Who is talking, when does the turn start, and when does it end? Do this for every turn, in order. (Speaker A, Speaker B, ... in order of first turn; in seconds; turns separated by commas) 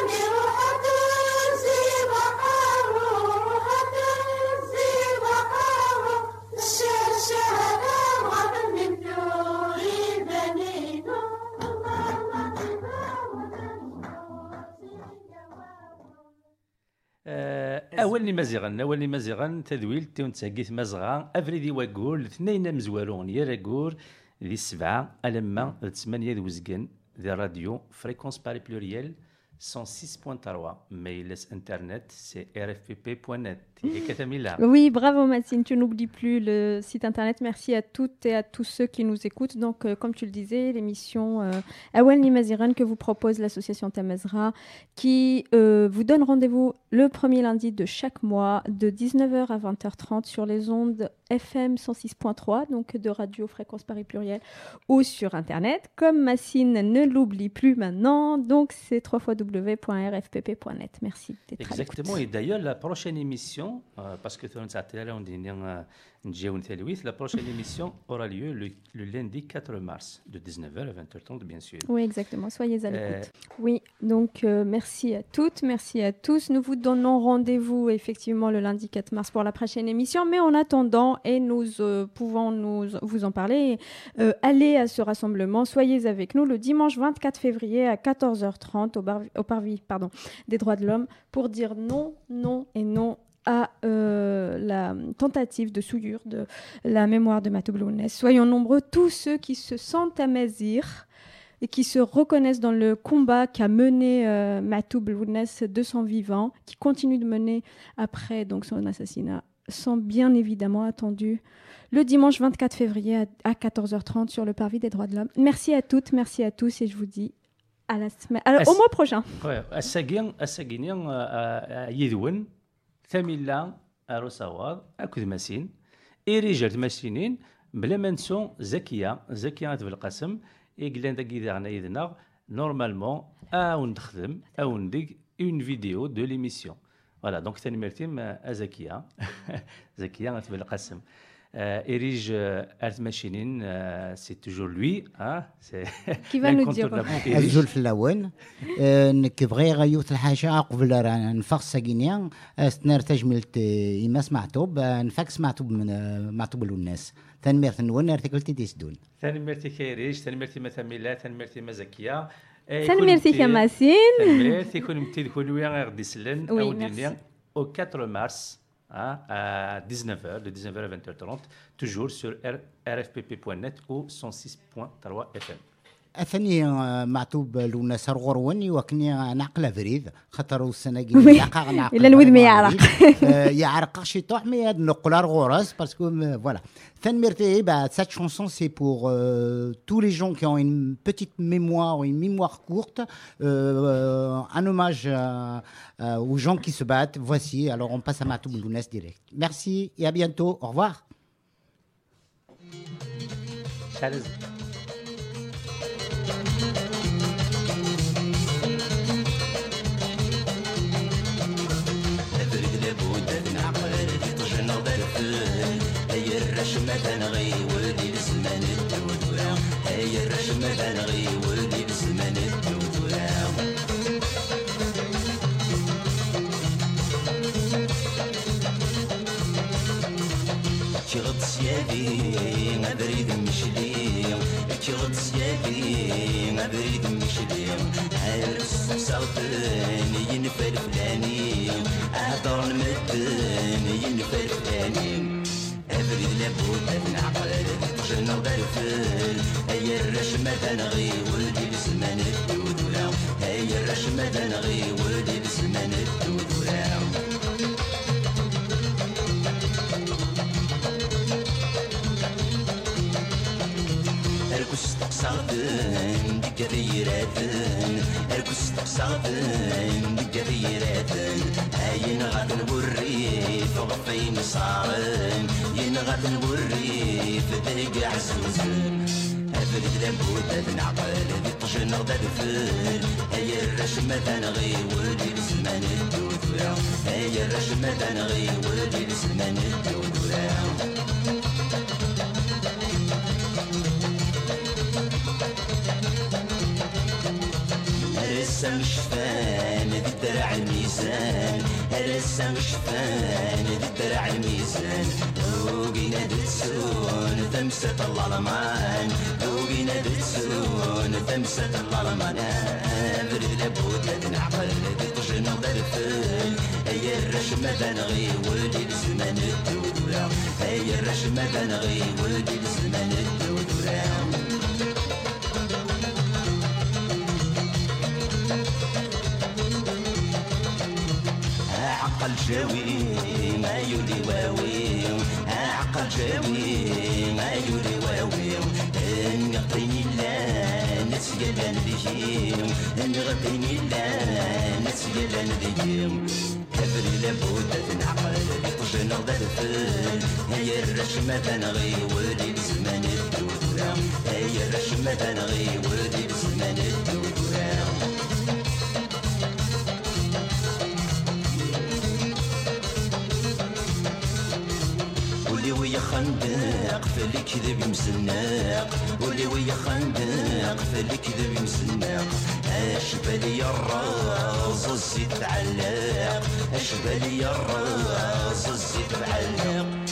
Speaker A: 17.2-34.6, Speaker B: 34.6-62.2, Speaker A: 61.6-71.9, Speaker B: 71.9-101.1, Speaker A: 72.9-73.3, Speaker B: 101.6-117.3, Speaker B: 117.9-119.4, Speaker A: 119.4-122.5, Speaker A: 123.1-125.7, Speaker A: 126.3-141.0, Speaker A: 141.5-147.7, Speaker B: 146.3-147.6, Speaker C: 147.2-159.0, Speaker A: 159.2-175.6, Speaker B: 162.8-164.6, Speaker B: 166.5-167.2, Speaker C: 176.2-201.0, Speaker B: 181.1-183.4, Speaker A: 203.9-204.3, Speaker D: 212.3-223.7, Speaker D: 231.1-245.4, Speaker D: 245.9-257.2, Speaker D: 264.5-279.0, Speaker D: 279.5-290.9, Speaker D: 298.0-324.4, Speaker D: 331.7-358.0, Speaker D: 365.4-379.9